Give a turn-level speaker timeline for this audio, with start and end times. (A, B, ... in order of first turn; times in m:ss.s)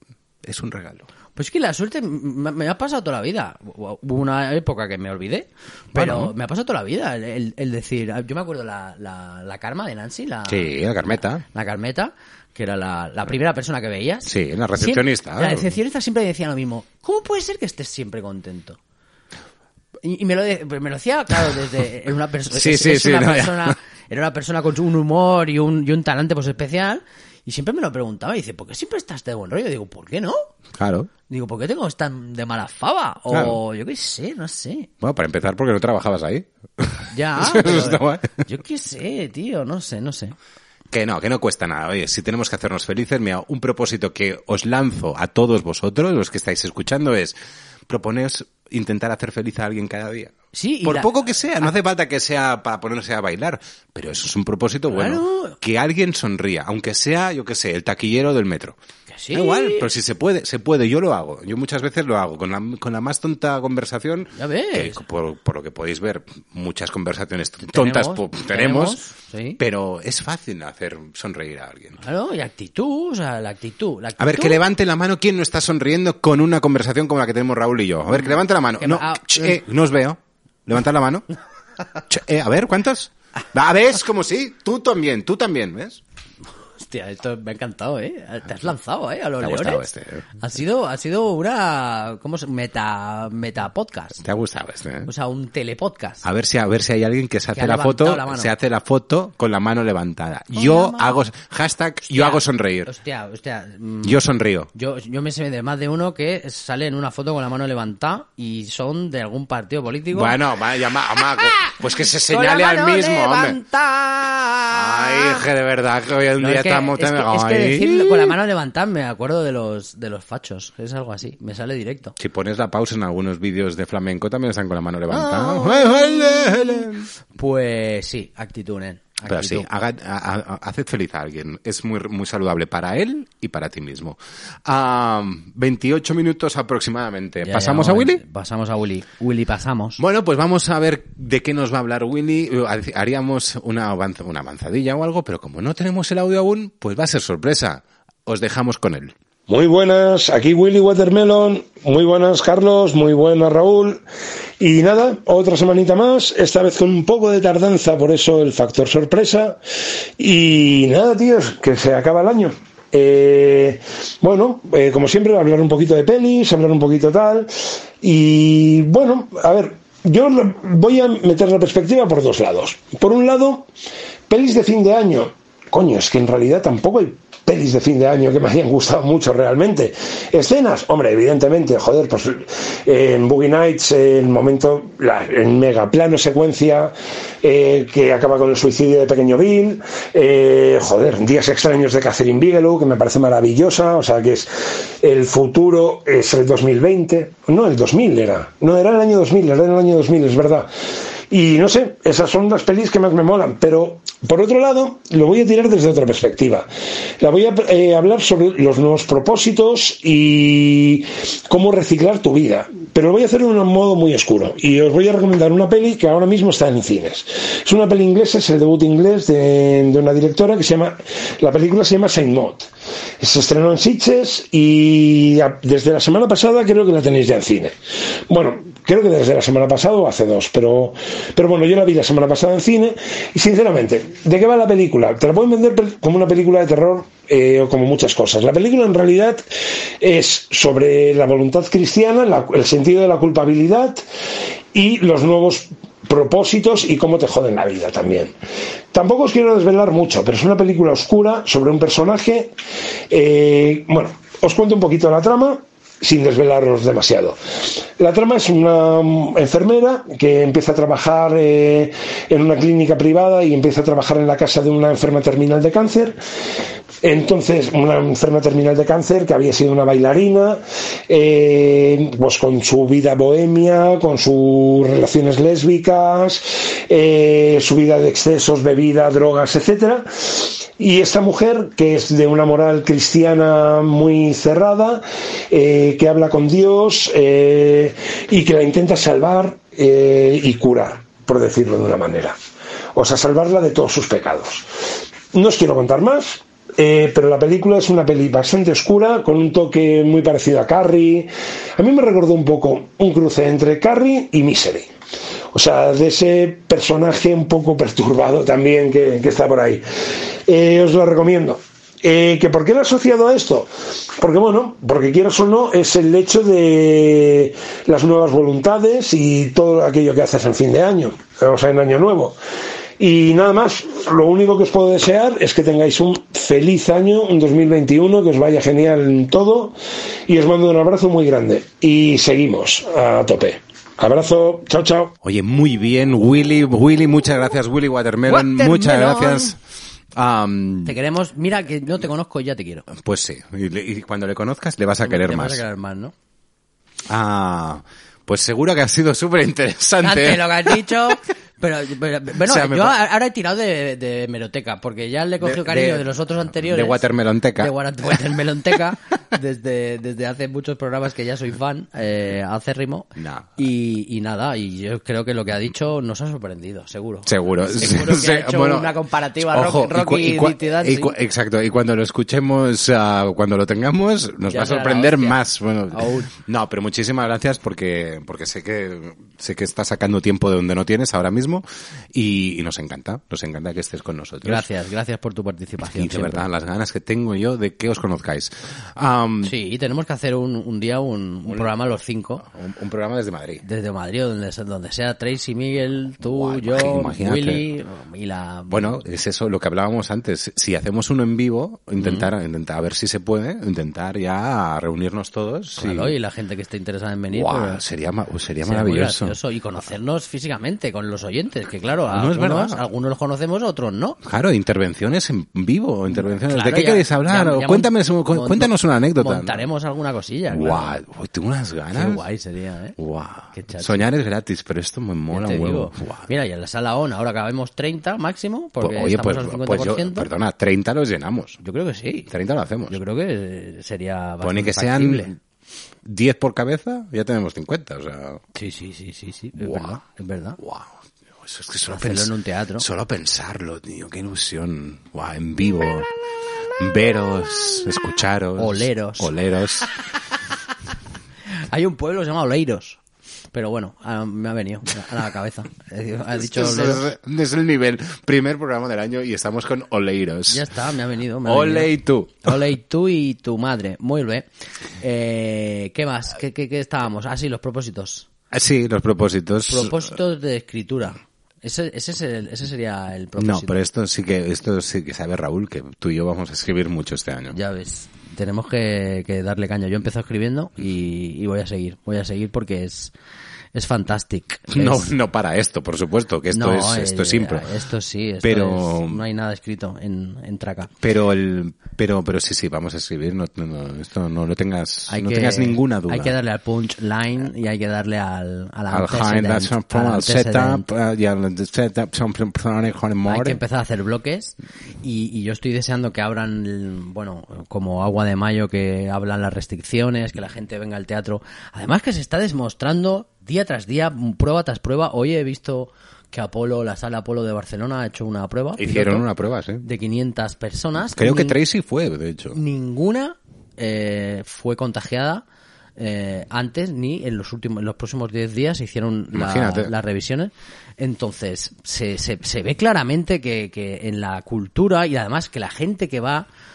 0:00.4-0:01.1 A
0:01.4-0:10.7 B
0:05.9-0:06.3 A
0:10.5-0:11.4 A
0:11.5-0:18.8 B
0:14.2-0:15.7 A
0:20.0-0:30.5 B
0:22.5-0:23.7 A
0:30.7-0:31.1 A
0:31.3-0:34.9 B
0:33.3-0:33.6 A
0:35.0-0:38.4 A
0:37.1-0:40.4 B
0:40.9-0:47.4 A
0:47.9-0:58.8 A
0:50.5-0:51.7 B
0:54.9-0:55.6 B
0:59.1-0:59.9 B
0:59.3-1:09.0 A
1:04.4-1:05.0 B
1:07.6-1:09.6 B
1:09.6-1:12.0 A
1:12.0-1:14.6 B
1:14.2-1:21.2 A
1:18.2-1:19.6 B
1:22.1-1:26.0 A
1:26.8-1:29.9 B
1:29.4-1:30.3 A
1:30.4-1:34.2 B
1:34.2-1:35.1 A
1:35.0-1:36.2 B
1:36.2-1:42.9 A
1:37.5-1:38.5 B
1:40.5-1:41.2 B
1:42.1-1:44.2 B
1:44.0-1:44.7 A
1:44.7-1:50.4 B
1:50.1-1:53.6 A
1:51.2-1:55.4 B
1:54.7-1:58.4 A
1:56.4-2:02.2 B
2:02.2-2:07.1 A
2:05.1-2:09.7 B
2:09.3-2:18.2 A
2:17.4-2:20.0 B
2:20.0-2:29.1 A
2:29.5-2:34.0 C
2:34.6-2:39.6 C
2:40.2-2:53.7 C
2:54.3-3:14.5 C
3:15.0-3:20.7 C
3:21.3-3:26.7 C
3:27.2-3:42.7 C
3:43.2-3:47.7 C
3:48.3-3:59.4 C
4:00.0-4:04.0 C
4:04.7-4:08.3 C
4:08.9-4:12.5 C
4:13.1-4:17.4 C
4:18.0-4:26.2 C
4:27.0-4:52.4 C
4:52.9-4:54.7 C
4:55.3-5:04.9 C
5:05.5-5:09.8 C
5:10.5-5:22.4 C
5:23.0-5:29.8 C
5:30.3-5:35.1 C
5:35.2-5:39.6 A
5:38.3-5:39.5 B
5:40.1-5:41.0 A
5:40.8-5:42.9 B
5:42.9-5:45.6 A
5:45.0-5:46.1 B
5:47.1-5:50.8 A
5:50.0-5:57.1 B
5:52.4-5:53.0 A
5:55.4-5:57.7 A
5:57.6-6:11.2 B
6:03.2-6:03.5 A
6:07.2-6:24.7 A
6:14.5-6:15.4 B
6:15.9-6:16.3 B
6:24.4-6:26.5 B
6:25.9-6:29.5 A
6:29.4-6:32.4 B
6:32.4-6:33.6 A
6:33.6-6:38.9 B
6:36.2-6:37.6 A
6:38.7-6:46.1 A
6:42.0-6:42.3 B
6:45.8-6:47.8 B
6:47.3-6:49.4 A
6:48.6-6:54.2 B
6:52.1-6:52.8 A
6:54.2-6:59.6 A
6:56.1-7:00.9 B
7:00.5-7:02.2 A
7:01.9-7:03.0 B
7:03.0-7:06.3 A
7:03.5-7:04.1 B
7:05.3-7:10.3 B
7:08.8-7:11.6 A
7:11.6-7:12.3 B
7:12.3-7:13.0 A
7:12.9-7:15.3 B
7:14.4-7:15.4 A
7:16.0-7:18.4 A
7:18.5-7:20.6 B
7:19.6-7:20.0 A
7:20.6-7:26.1 A
7:21.9-7:22.8 B
7:26.8-7:29.9 A
7:28.6-7:29.3 B
7:31.6-7:33.0 B
7:33.5-7:37.1 B
7:36.4-7:40.7 A
7:40.5-7:44.5 B
7:41.4-7:42.6 A
7:45.0-7:48.3 B
7:48.5-7:50.1 A
7:49.7-7:53.8 B
7:53.4-7:57.6 A
7:57.5-8:03.1 B
8:03.7-8:05.1 B
8:04.7-8:07.6 A
8:06.5-8:10.9 B
8:08.4-8:09.2 A
8:11.0-8:16.4 A
8:15.1-8:20.9 B
8:18.9-8:23.6 A
8:23.2-8:39.2 B
8:38.8-8:39.8 A
8:39.8-8:41.6 B
8:41.2-8:42.6 A
8:42.5-8:45.4 B
8:46.0-8:56.5 B
8:49.3-8:49.9 A